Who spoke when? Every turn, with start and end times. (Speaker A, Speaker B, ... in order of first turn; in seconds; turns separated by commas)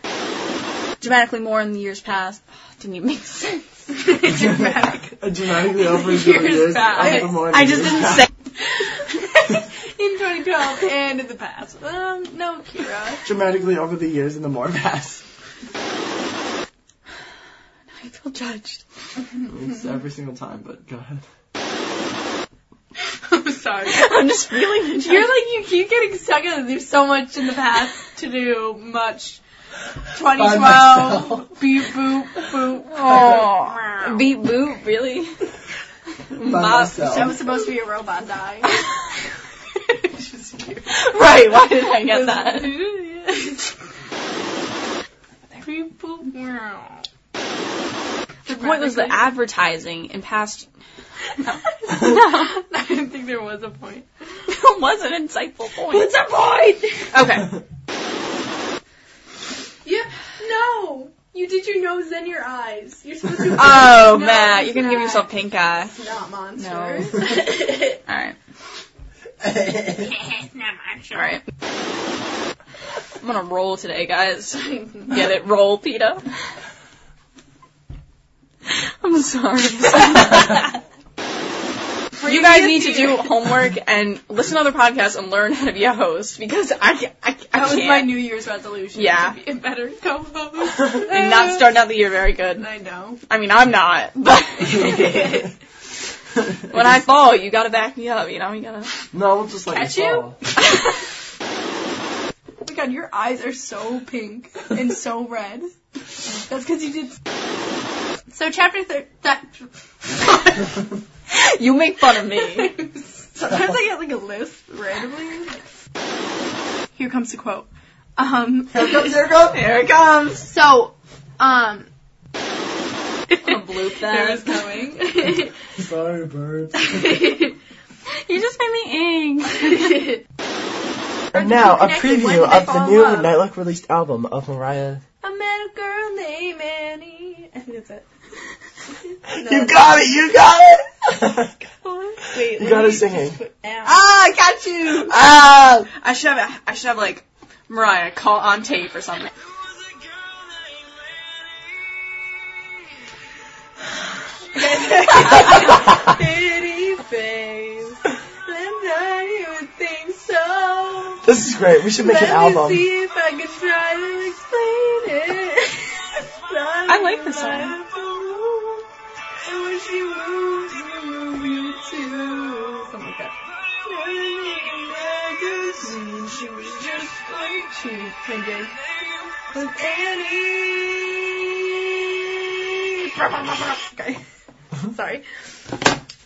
Speaker A: 1.0-3.9, Speaker B: 3.9-7.5, Speaker C: 4.3-8.3, Speaker A: 7.2-8.3, Speaker B: 8.9-13.2, Speaker C: 13.2-15.2, Speaker A: 17.9-18.8, Speaker C: 19.5-21.2, Speaker B: 23.1-29.4, Speaker A: 23.9-25.3, Speaker B: 30.1-34.2, Speaker C: 30.3-31.6, Speaker A: 32.9-35.4, Speaker A: 36.3-37.2, Speaker C: 36.3-37.4, Speaker B: 37.0-38.9, Speaker B: 39.7-41.0, Speaker A: 40.9-42.9, Speaker B: 42.0-43.7, Speaker B: 45.5-47.0, Speaker B: 48.5-49.2, Speaker A: 48.5-50.7, Speaker A: 51.4-52.5, Speaker B: 51.8-54.1, Speaker A: 54.5-56.1, Speaker B: 55.9-57.1, Speaker A: 57.1-57.6, Speaker B: 59.8-65.3, Speaker A: 63.5-66.0, Speaker B: 65.9-68.0, Speaker A: 66.6-68.4, Speaker C: 69.4-70.1, Speaker B: 70.1-71.2, Speaker A: 71.1-71.4, Speaker A: 73.2-76.2, Speaker A: 78.7-80.7, Speaker B: 82.2-83.3, Speaker A: 82.2-88.2, Speaker B: 87.5-91.7, Speaker A: 88.9-89.3, Speaker A: 90.9-92.7, Speaker B: 92.6-93.2, Speaker A: 93.3-95.1, Speaker B: 94.7-95.5, Speaker A: 96.7-98.9, Speaker C: 99.1-100.4, Speaker B: 99.7-101.1, Speaker B: 102.6-107.2, Speaker B: 108.3-110.8, Speaker A: 111.3-112.7, Speaker B: 112.5-115.6, Speaker B: 117.0-119.2, Speaker C: 118.7-119.7, Speaker A: 119.5-120.5, Speaker B: 120.4-121.9, Speaker A: 123.4-124.6, Speaker B: 124.0-125.5, Speaker C: 125.7-127.3, Speaker B: 126.7-127.5, Speaker A: 128.1-130.1, Speaker B: 131.3-133.3, Speaker C: 131.3-135.0, Speaker B: 135.2-138.1, Speaker B: 139.2-139.7, Speaker C: 139.3-141.5, Speaker B: 141.7-144.1, Speaker C: 142.5-143.4, Speaker A: 143.8-145.2, Speaker C: 145.1-145.9, Speaker A: 145.9-149.3, Speaker B: 154.5-161.2, Speaker C: 161.2-162.9, Speaker B: 162.0-168.8, Speaker A: 166.9-167.8, Speaker B: 169.4-178.8, Speaker B: 179.4-184.2, Speaker B: 184.9-185.2